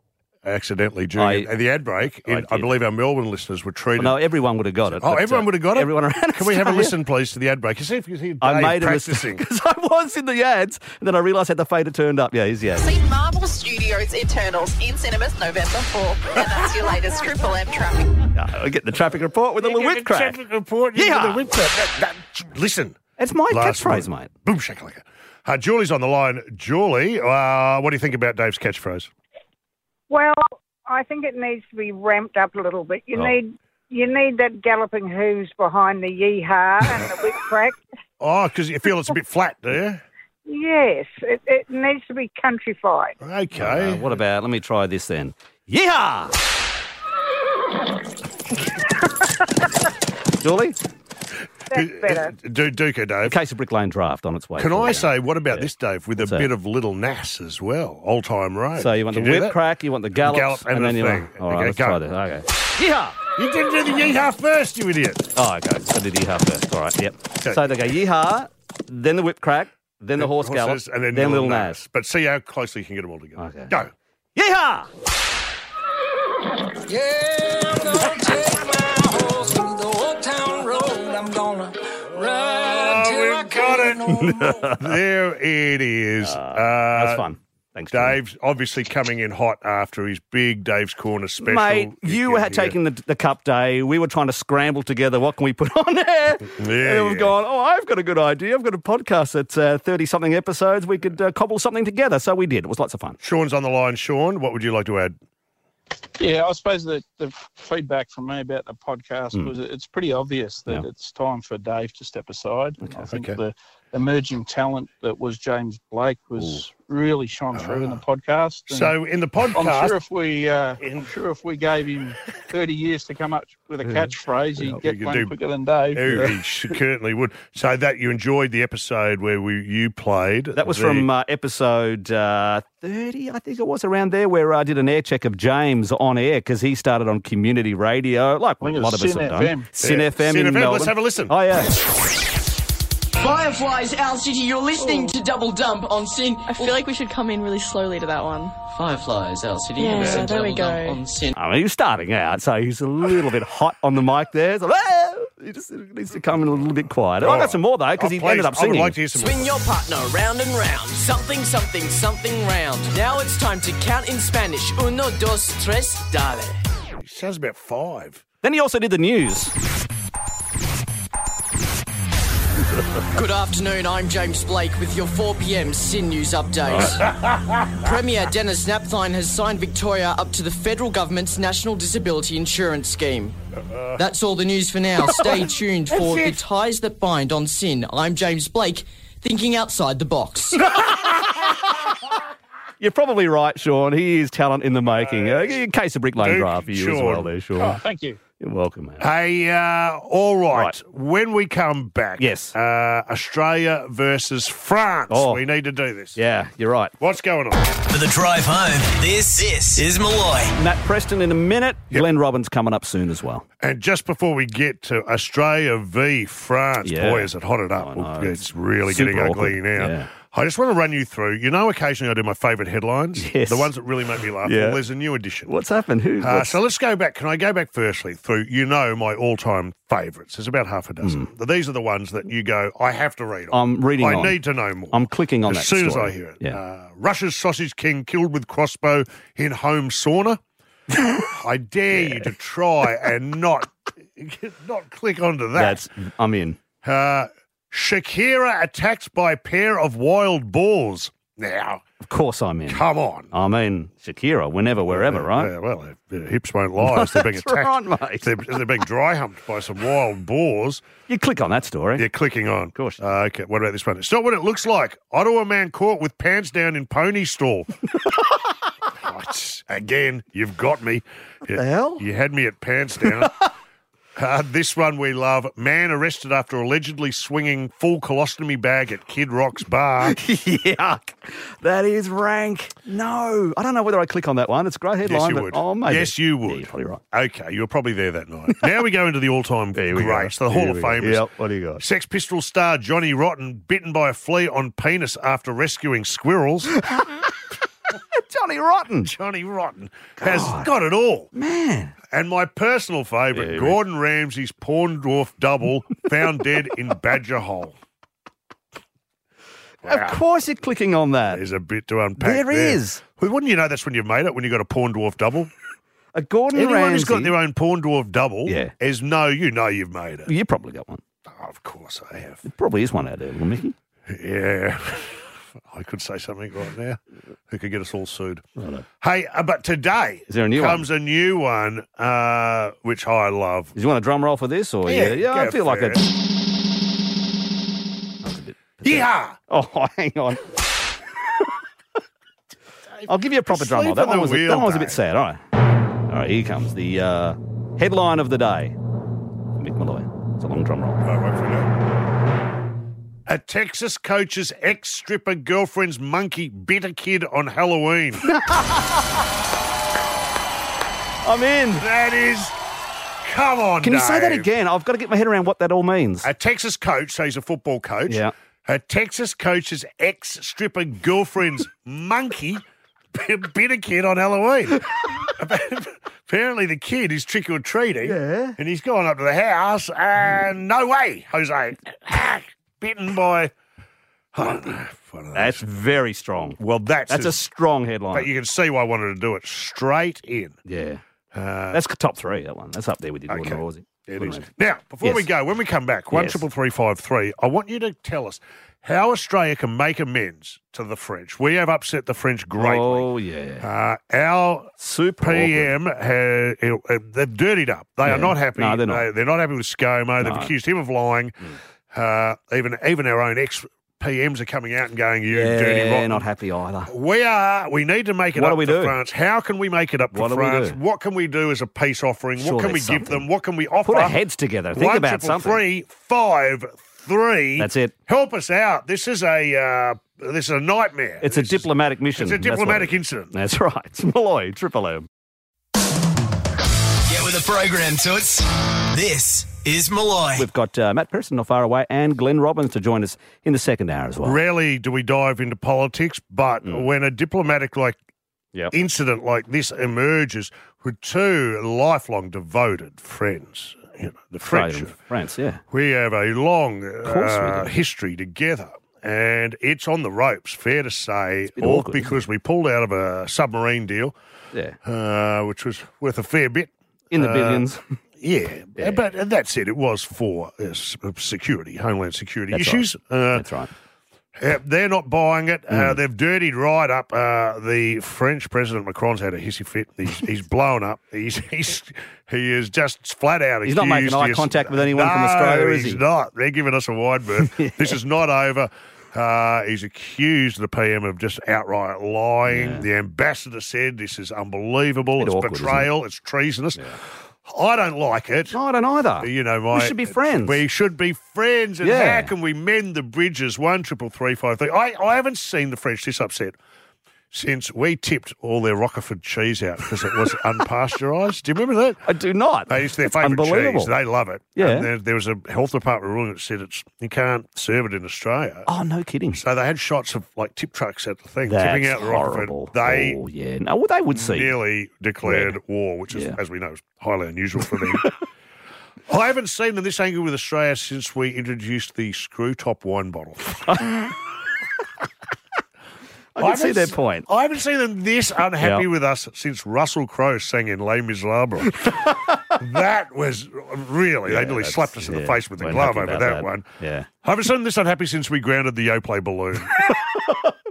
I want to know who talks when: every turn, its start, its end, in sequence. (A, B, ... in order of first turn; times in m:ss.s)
0:00.4-0:04.2 A
0:01.2-0:01.5 B
0:02.3-0:02.7 B
0:04.0-0:06.9 B
0:04.9-0:09.4 A
0:08.4-0:12.9 B
0:12.8-0:18.2 C
0:18.4-0:20.4 B
0:19.6-0:23.0 A
0:21.0-0:21.4 B
0:23.2-0:24.3 B
0:23.5-0:29.1 A
0:30.1-0:37.8 D
0:38.2-0:40.0 A
0:40.5-0:43.2 D
0:43.2-0:44.1 A
0:43.6-0:46.4 B
0:50.4-0:50.8 B
0:51.7-0:52.3 D
0:51.8-0:53.4 A
0:53.3-0:56.5 B
0:54.6-0:59.6 A
0:58.8-1:03.2 B
1:00.2-1:02.0 A
1:03.4-1:05.3 A
1:05.4-1:11.8 B
1:07.4-1:07.7 A
1:10.2-1:13.9 A
1:13.4-1:13.7 B
1:14.4-1:14.9 B
1:16.9-1:24.7 E
1:22.2-1:27.2 A
1:24.1-1:24.9 B
1:26.2-1:28.2 B
1:27.9-1:32.8 A
1:31.4-1:43.2 B
1:36.6-1:37.3 A
1:43.2-1:45.2 A
1:46.2-1:59.0 F
1:52.8-1:53.1 B
1:53.1-1:53.4 A
1:56.4-1:56.6 B
1:57.5-1:58.0 A
1:58.7-2:00.0 A
1:59.6-2:06.3 F
2:00.8-2:01.1 A
2:03.8-2:04.8 B
2:04.8-2:05.3 A
2:06.0-2:11.1 A
2:10.6-2:21.7 B
2:18.6-2:19.7 F
2:19.8-2:21.3 A
2:23.2-2:26.8 G
2:24.8-2:25.1 F
2:26.5-2:28.6 H
2:28.6-2:31.3 G
2:29.8-2:31.0 H
2:31.4-2:39.0 B
2:37.2-2:39.5 A
2:39.2-2:46.6 G
2:47.0-2:48.2 A
2:48.4-2:49.5 B
2:53.2-2:57.1 G
2:56.7-2:57.0 B
2:56.7-2:57.9 A
2:57.8-3:03.4 G
3:04.0-3:10.6 G
3:06.0-3:06.3 A
3:12.8-3:17.8 B
3:14.8-3:15.6 A
3:16.2-3:17.3 A
3:17.6-3:18.2 F
3:18.4-3:19.0 B
3:19.0-3:26.2 A
3:22.2-3:22.5 B
3:25.1-3:25.4 B
3:26.2-3:26.9 B
3:27.0-3:27.7 A
3:27.9-3:30.6 I
3:30.6-3:33.4 B
3:33.6-3:45.5 A
3:36.8-3:40.1 B
3:43.2-3:43.7 B
3:44.4-3:44.8 B
3:45.5-3:46.6 B
3:46.2-4:00.4 A
3:51.0-3:51.3 B
3:53.5-3:54.4 B
3:54.9-3:56.6 B
4:01.0-4:01.2 B
4:01.3-4:05.8 A
4:02.0-4:02.3 B
4:05.6-4:06.6 B
4:06.8-4:11.8 A
4:12.0-4:15.5 B
4:12.7-4:13.3 A
4:14.9-4:17.7 A
4:16.8-4:18.3 B
4:18.2-4:20.8 A
4:21.1-4:22.0 B
4:22.0-4:27.7 A
4:22.7-4:23.0 B
4:29.0-4:33.3 A
4:31.5-4:32.0 B
4:34.2-4:40.2 A
4:40.1-4:47.0 B
4:45.0-4:51.2 A
4:49.7-4:51.8 B
4:51.8-4:56.7 A
4:56.8-4:57.3 B
4:58.1-4:59.1 B
4:59.1-5:01.3 A
5:00.2-5:00.7 B
5:01.3-5:02.0 B
5:02.1-5:07.8 A
5:03.3-5:03.8 B
5:09.8-5:11.4 B
5:09.9-5:10.2 A
5:11.3-5:15.5 A
5:12.2-5:13.0 B
5:16.2-5:17.4 B
5:16.5-5:20.3 A
5:18.5-5:18.7 B
5:20.3-5:21.0 B
5:21.3-5:22.4 A
5:22.4-5:23.8 B
5:24.1-5:27.0 A
5:27.5-5:28.4 A
5:28.6-5:28.8 B
5:29.0-5:33.7 A
5:30.3-5:30.9 B
5:33.8-5:36.1 B
5:34.9-5:36.0 A
5:38.2-5:40.4 B
5:38.8-5:39.4 A
5:43.1-5:45.4 B
5:43.5-5:45.0 A
5:46.1-5:48.8 B
5:49.6-5:51.0 B
5:51.0-5:51.7 A
5:53.3-5:58.2 A
5:58.2-5:59.1 B
6:01.2-6:01.8 B
6:01.8-6:02.5 A
6:03.2-6:04.5 A
6:03.8-6:06.3 B
6:06.2-6:12.6 A
6:13.1-6:23.5 A
6:18.0-6:18.6 B
6:24.3-6:25.6 A
6:24.4-6:24.8 B
6:25.4-6:28.3 B
6:26.6-6:27.4 A
6:28.1-6:30.6 A
6:30.7-6:31.0 B
6:31.3-6:31.8 A
6:31.7-6:34.5 B
6:33.3-6:43.1 A
6:35.0-6:35.3 B
6:36.1-6:36.4 B
6:42.6-6:43.7 B
6:43.6-6:44.7 A
6:44.8-6:45.7 B
6:45.2-6:51.4 A
6:48.0-6:49.0 B
6:50.2-6:50.5 B
6:51.9-6:56.3 A
6:55.3-6:56.9 B
6:56.9-7:04.2 A
6:58.4-6:59.0 B
7:00.1-7:00.8 B
7:02.4-7:03.3 B
7:03.8-7:05.6 B
7:04.8-7:11.6 A
7:07.6-7:07.9 B
7:11.2-7:15.1 B
7:12.2-7:13.3 A
7:17.1-7:20.4 I
7:20.4-7:24.4 B
7:24.2-7:28.0 A
7:28.7-7:34.9 A
7:34.5-7:35.6 B
7:35.7-7:44.1 A
7:37.0-7:37.7 B
7:41.6-7:42.1 B
7:44.8-7:47.7 A
7:47.1-7:47.8 B
7:48.2-7:53.4 A
7:52.5-7:53.7 B
7:54.4-8:16.8 A
7:55.7-7:56.0 B
8:03.6-8:06.0 B
8:07.4-8:07.9 B
8:12.5-8:12.9 B
8:15.2-8:15.9 B
8:17.5-8:18.6 A
8:18.5-8:20.6 B
8:19.2-8:26.6 A
8:21.8-8:22.3 B
8:27.3-8:32.0 A
8:32.1-8:33.9 B
8:32.7-8:38.7 A
8:34.6-8:34.9 B
8:38.7-8:39.4 B
8:39.3-8:43.2 A
8:41.5-8:44.6 B
8:44.1-8:48.1 A
8:45.2-8:45.6 B
8:46.1-8:46.4 B
8:49.1-8:53.7 A
8:53.7-8:54.1 B
8:56.4-8:57.3 B
8:56.4-9:01.9 A
8:58.6-8:58.9 B
9:01.8-9:02.3 B
9:02.6-9:06.6 A
9:04.3-9:07.1 B
9:07.2-9:09.8 A
9:09.8-9:10.5 B